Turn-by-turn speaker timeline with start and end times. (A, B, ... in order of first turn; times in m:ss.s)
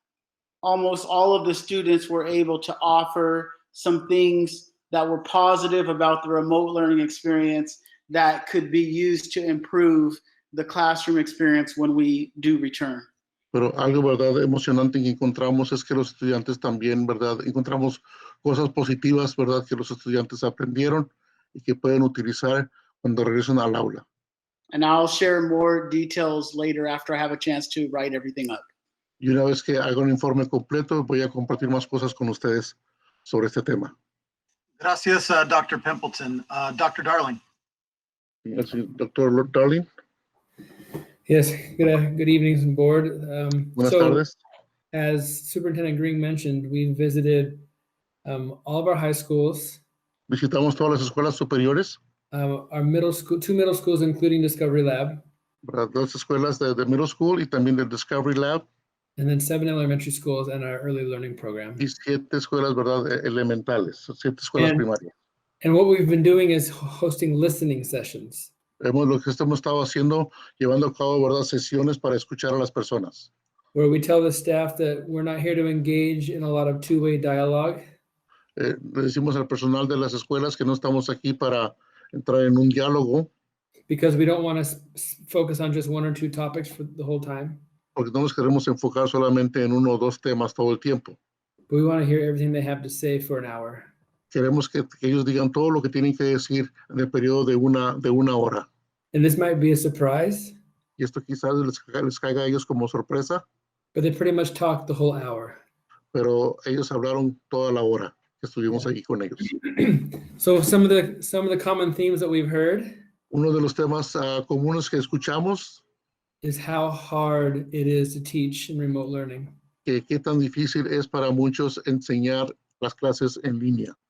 0:00.6-0:13.1 A
0:13.5-0:24.0 B
0:24.7-0:28.6 A
0:29.2-0:33.9 B
0:34.8-0:37.4 C
0:38.4-0:39.8 B
0:41.3-0:44.2 D
0:43.8-0:44.4 B
0:44.9-0:47.6 D
0:48.2-0:49.8 D
0:50.3-0:52.0 B
0:52.3-0:55.2 D
0:55.6-0:58.6 B
0:59.2-1:01.8 D
1:01.8-1:05.1 B
1:04.6-1:04.8 D
1:05.6-1:08.5 D
1:08.8-1:13.3 B
1:13.7-1:17.8 D
1:18.6-1:23.3 B
1:23.9-1:27.6 D
1:28.0-1:31.2 B
1:31.7-1:33.9 D
1:34.3-1:38.6 B
1:39.1-1:40.6 D
1:41.0-1:43.4 B
1:43.9-1:45.6 D
1:46.1-1:49.5 B
1:49.5-1:53.0 D
1:53.3-1:55.8 B
1:56.4-1:59.5 D
1:59.8-2:03.9 B